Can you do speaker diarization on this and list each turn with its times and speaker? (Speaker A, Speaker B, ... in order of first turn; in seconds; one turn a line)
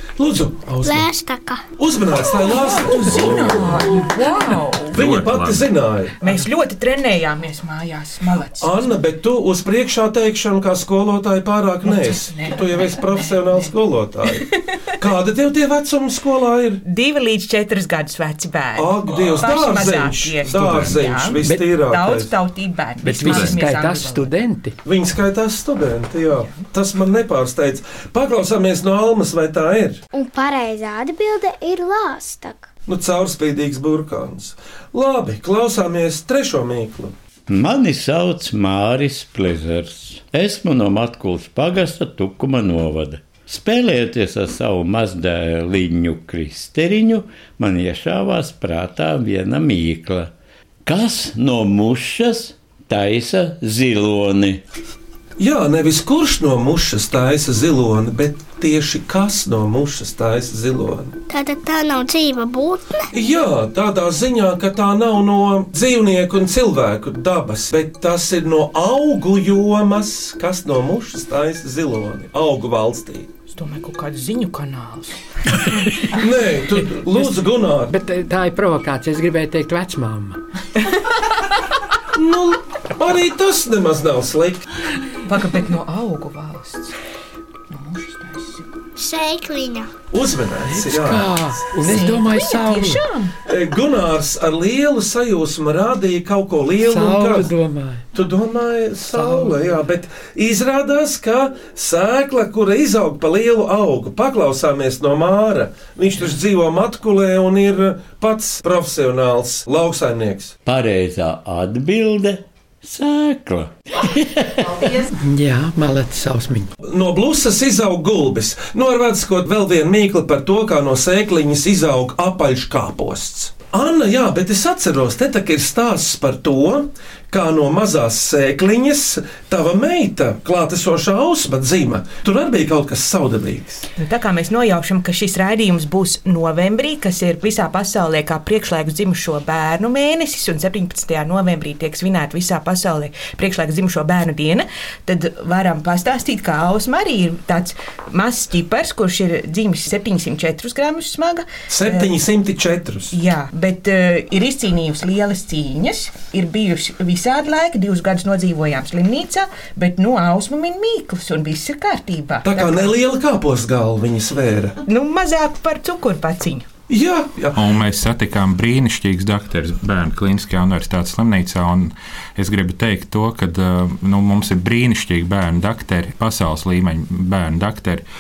Speaker A: 0.2-1.1
Speaker B: 0.8-1.6
Speaker A: 1.8-3.4
Speaker C: 2.6-5.0
Speaker D: 3.2-3.8
Speaker D: 4.9-5.7
Speaker A: 4.9-6.2
Speaker C: 6.2-8.9
Speaker A: 8.6-16.8
Speaker C: 11.9-13.7
Speaker C: 16.8-24.3
Speaker A: 18.8-22.3
Speaker E: 23.0-24.8
Speaker D: 23.2-23.6
Speaker A: 24.9-30.0
Speaker F: 30.1-32.7
Speaker A: 32.9-37.1
Speaker G: 37.5-50.3
Speaker G: 50.9-54.6
Speaker A: 55.4-61.1
Speaker B: 61.3-63.1
Speaker A: 63.1-73.3
Speaker C: 73.5-75.2
Speaker A: 76.0-77.9
Speaker E: 77.9-80.4
Speaker A: 82.1-84.7
Speaker C: 85.3-87.0
Speaker C: 87.7-88.7
Speaker B: 89.0-89.9
Speaker A: 90.1-91.3
Speaker E: 90.7-93.0
Speaker C: 91.8-93.3
Speaker A: 93.5-97.5
Speaker E: 96.8-98.0
Speaker A: 98.1-110.5
Speaker G: 110.7-115.0
Speaker E: 115.2-116.7
Speaker A: 116.9-133.8
Speaker C: 134.0-152.1
Speaker A: 151.7-153.1
Speaker C: 153.1-162.9
Speaker A: 162.4-164.8
Speaker C: 164.9-166.7
Speaker A: 166.9-167.7
Speaker D: 167.5-178.0